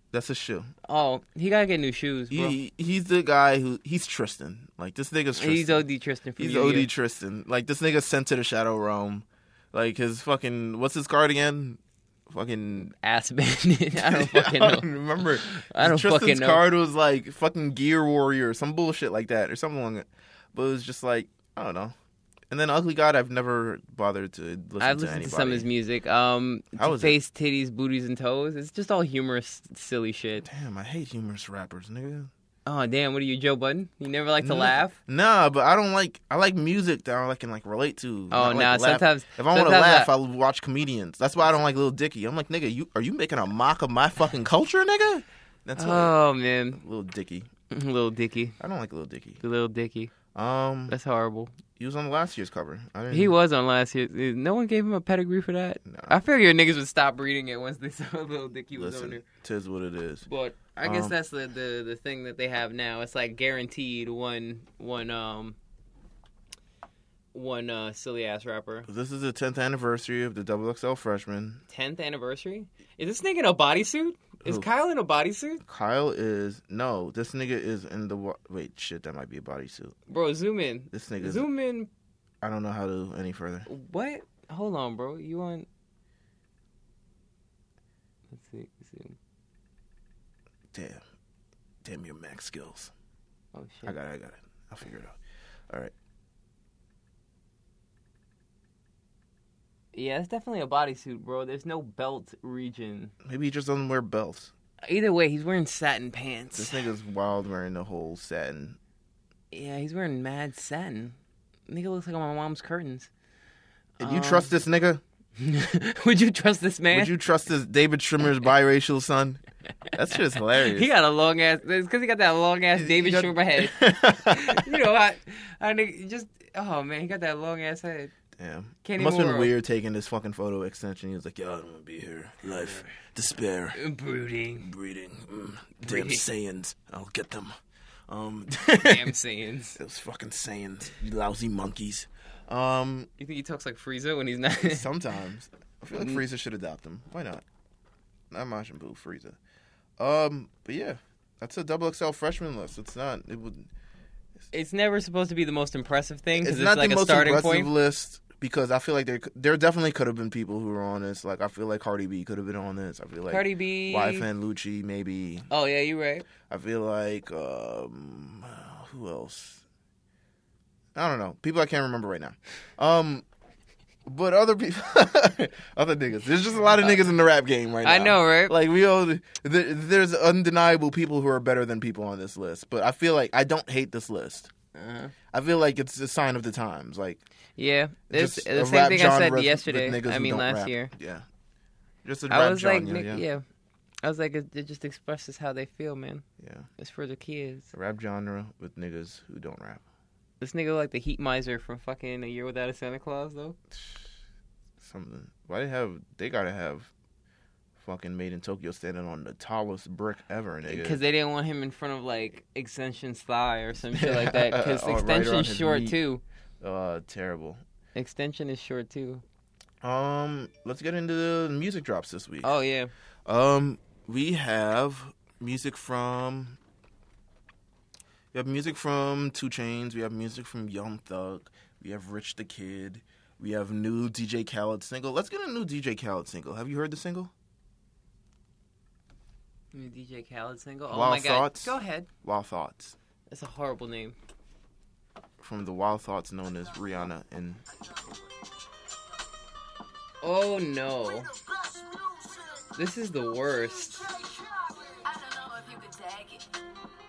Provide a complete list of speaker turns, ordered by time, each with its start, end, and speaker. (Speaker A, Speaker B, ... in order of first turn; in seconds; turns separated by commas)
Speaker A: 0.1-0.7, Speaker B: 0.9-2.6, Speaker A: 2.3-5.9, Speaker B: 5.4-6.9, Speaker A: 6.4-12.9, Speaker B: 13.0-14.9, Speaker A: 14.0-21.9, Speaker B: 15.4-16.6, Speaker A: 22.5-25.7, Speaker B: 24.8-30.5, Speaker A: 26.8-27.2, Speaker A: 30.4-32.3, Speaker B: 32.7-35.0, Speaker A: 34.4-46.1, Speaker B: 38.3-40.1, Speaker B: 45.8-46.8, Speaker A: 46.8-47.5, Speaker B: 47.7-48.6, Speaker A: 48.6-49.4, Speaker B: 49.4-50.1, Speaker A: 50.3-51.0, Speaker B: 50.9-51.5, Speaker A: 51.8-53.4, Speaker B: 53.1-59.2, Speaker A: 55.9-56.2, Speaker A: 58.8-60.3, Speaker B: 60.3-65.6, Speaker A: 60.8-61.1, Speaker B: 67.3-68.9, Speaker A: 68.9-71.6, Speaker B: 71.7-75.6, Speaker A: 75.7-80.0, Speaker B: 80.1-81.9, Speaker A: 80.9-81.5, Speaker A: 82.4-83.7, Speaker B: 83.7-85.7, Speaker B: 88.3-89.2, Speaker A: 90.7-91.0, Speaker A: 91.8-92.9, Speaker B: 93.5-94.0, Speaker A: 93.9-95.2, Speaker B: 99.9-103.1, Speaker A: 103.2-104.5, Speaker B: 104.8-106.9, Speaker A: 106.5-108.8, Speaker B: 109.5-111.2, Speaker B: 111.7-113.1, Speaker B: 114.0-114.5, Speaker A: 114.0-115.0, Speaker B: 115.4-117.2, Speaker A: 116.9-119.4, Speaker A: 119.9-120.9, Speaker B: 120.5-128.1, Speaker A: 122.8-124.9, Speaker A: 128.4-133.8, Speaker B: 128.8-129.5, Speaker B: 132.5-132.9, Speaker B: 133.8-134.7, Speaker A: 134.6-137.6, Speaker B: 135.8-136.2, Speaker A: 138.1-139.1, Speaker B: 138.8-139.8, Speaker A: 139.8-143.1, Speaker B: 143.2-144.9, Speaker A: 144.6-147.4, Speaker A: 148.3-149.4, Speaker A: 150.0-153.7, Speaker B: 154.5-157.7, Speaker A: 156.3-165.5, Speaker B: 163.3-164.3, Speaker B: 165.5-166.3, Speaker A: 166.4-169.6, Speaker A: 170.9-173.2, Speaker A: 174.1-184.5, Speaker B: 177.8-178.6, Speaker B: 184.8-185.1, Speaker A: 185.3-187.2, Speaker B: 187.6-190.9, Speaker A: 188.1-191.3, Speaker A: 192.0-193.2, Speaker B: 192.3-193.4, Speaker B: 194.0-196.2, Speaker A: 196.4-196.7, Speaker B: 196.8-197.7, Speaker A: 197.7-199.8, Speaker B: 200.4-203.6, Speaker A: 203.7-204.1, Speaker A: 204.8-206.9, Speaker A: 207.8-211.0, Speaker B: 210.7-216.2, Speaker A: 213.9-216.0, Speaker A: 216.6-217.6, Speaker B: 217.9-219.2, Speaker A: 219.8-222.5, Speaker B: 222.4-222.9, Speaker A: 223.3-226.6, Speaker A: 228.3-237.3, Speaker B: 239.7-242.1, Speaker A: 240.9-243.0, Speaker B: 243.3-244.2, Speaker A: 245.4-247.6, Speaker B: 250.2-251.3, Speaker C: 251.5-252.7, Speaker B: 252.8-254.1, Speaker C: 254.0-256.6